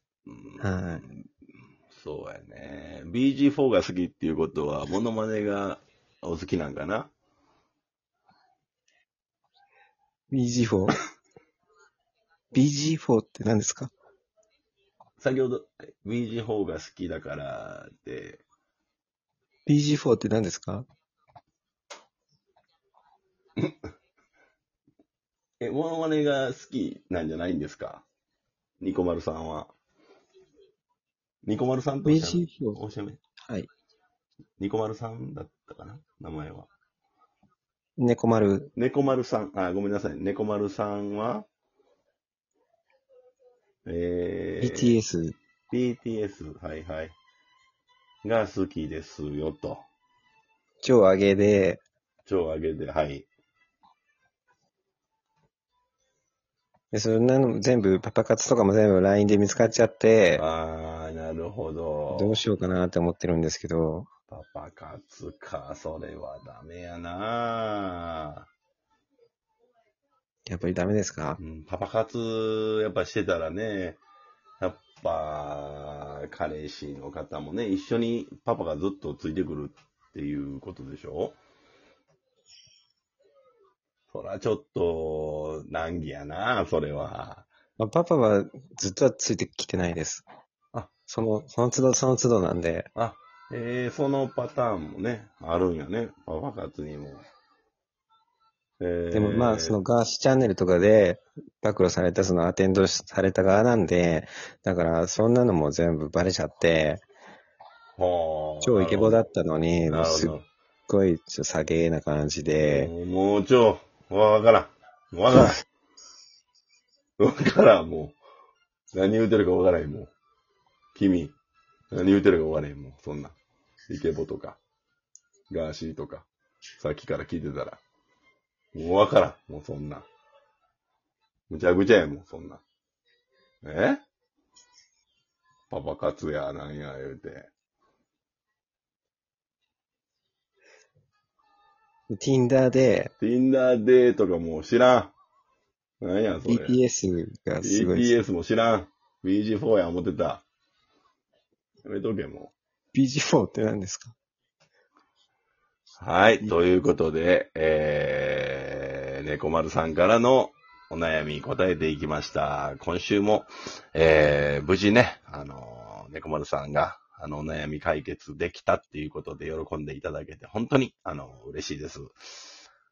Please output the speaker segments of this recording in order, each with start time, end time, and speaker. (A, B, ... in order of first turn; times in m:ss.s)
0:00.2-0:01.3 A
0:00.6-0:01.0 B
0:01.9-0:07.1 A
0:10.3-0:11.0 B
0:12.5-0:13.9 B
0:15.2-0:18.4 A
0:19.7-0:20.8 B
0:25.6-0:28.0 A
0:28.8-0:29.7 A
0:31.4-0:33.2 A
0:32.0-0:32.8 B
0:34.6-0:36.7 A
0:38.0-0:38.7 B
0:38.8-0:41.5 A
0:43.8-0:45.0 A
0:44.6-0:45.4 B
0:45.7-0:47.2 A
0:48.2-0:49.8 A
0:50.8-0:51.8 B
0:52.2-0:53.3 A
0:56.9-1:00.4 B
1:00.4-1:02.4 A
1:02.1-1:04.1 B
1:04.3-1:08.4 A
1:10.5-1:11.4 B
1:11.4-1:14.0 A
1:14.6-1:21.4 A
1:24.1-1:27.5 A
1:27.8-1:30.2 B
1:31.1-1:32.9 B
1:33.0-1:37.2 A
1:38.8-1:39.8 A
1:39.1-1:47.0 B
1:48.0-1:49.2 A
1:48.6-1:50.3 B
1:49.9-1:50.5 A
1:50.9-1:52.9 B
1:52.6-1:55.6 A
1:57.2-1:58.2 A
1:58.9-2:00.1 A
2:00.9-2:01.4 A
2:01.9-2:03.4 A
2:03.9-2:04.6 A
2:05.5-2:06.3 A
2:06.8-2:07.8 A
2:08.7-2:10.0 A
2:11.5-2:12.6 A
2:13.6-2:14.0 A
2:15.7-2:17.5 A
2:22.1-2:23.1 B
2:23.2-2:25.1 A
2:26.0-2:26.8 A
2:26.5-2:28.2 B
2:27.6-2:30.4 A
2:31.8-2:32.5 A
2:32.9-2:34.1 B
2:36.0-2:52.3 A